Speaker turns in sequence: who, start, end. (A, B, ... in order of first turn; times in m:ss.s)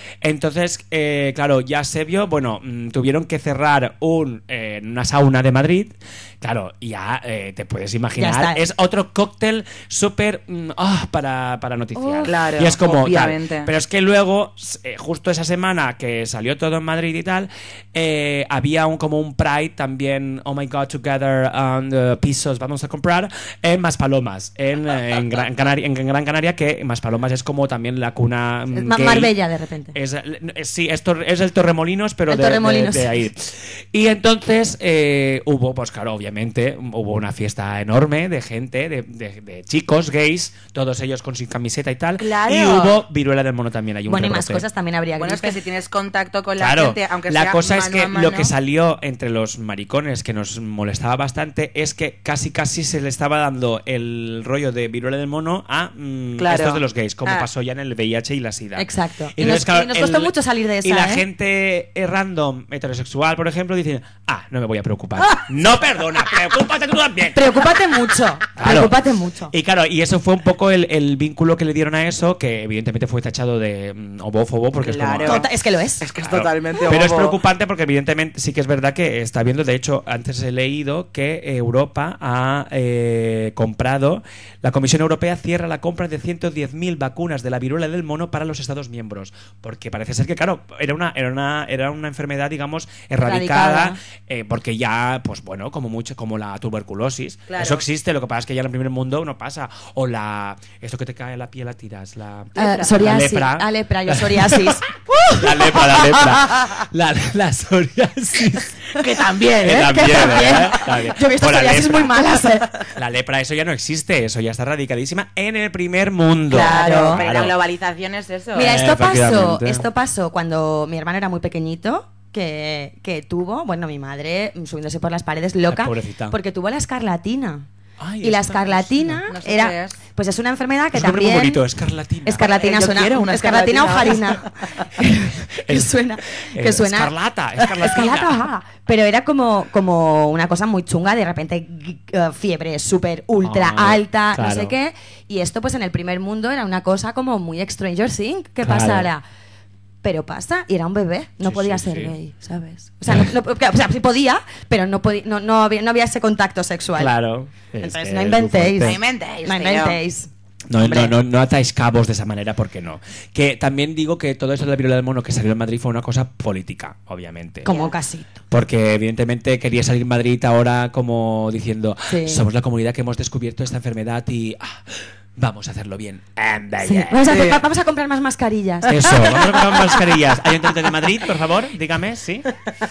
0:00.2-0:29.3 A
0:08.2-0:08.6 B
0:12.0-0:12.4 B
0:12.2-0:13.7 C
0:28.7-0:29.9 B
0:29.9-0:44.6 A
0:32.3-0:33.1 B
0:42.2-0:43.0 C
0:44.1-0:45.6 B
0:45.2-0:48.5 C
0:46.6-1:07.6 A
0:56.4-0:57.5 C
0:58.8-1:01.2 B
1:07.3-1:09.5 B
1:08.6-1:09.0 A
1:09.5-1:15.4 A
1:14.8-1:15.5 C
1:15.2-1:16.0 B
1:16.0-1:17.4 C
1:16.2-1:44.8 A
1:33.2-1:34.0 B
1:37.5-1:37.8 C
1:42.5-1:46.7 B
1:42.6-1:42.9 C
1:45.3-1:48.8 A
1:49.0-1:50.9 C
1:49.6-1:52.3 A
1:49.7-1:52.8 B
1:52.9-1:57.5 A
1:56.5-1:58.8 C
1:56.5-1:57.2 B
1:58.5-2:07.7 B
1:58.6-1:59.8 A
2:05.6-2:06.3 A
2:08.0-2:09.2 A
2:08.2-2:11.6 B
2:09.3-2:10.0 C
2:10.9-2:12.4 A
2:12.2-2:29.2 B
2:12.4-2:14.8 C
2:15.5-2:18.4 A
2:23.4-2:24.7 A
2:28.6-2:29.1 A
2:30.0-2:37.1 B
2:31.4-2:32.1 A
2:37.0-2:39.0 A
2:37.8-2:41.1 B
2:38.8-2:40.0 C
2:40.7-2:47.7 A
2:47.6-2:48.4 B
2:47.7-2:47.9 C
2:48.5-2:57.3 A
2:52.1-2:52.4 B
2:56.8-2:59.3 B
2:57.3-2:57.6 C
2:58.8-3:02.5 A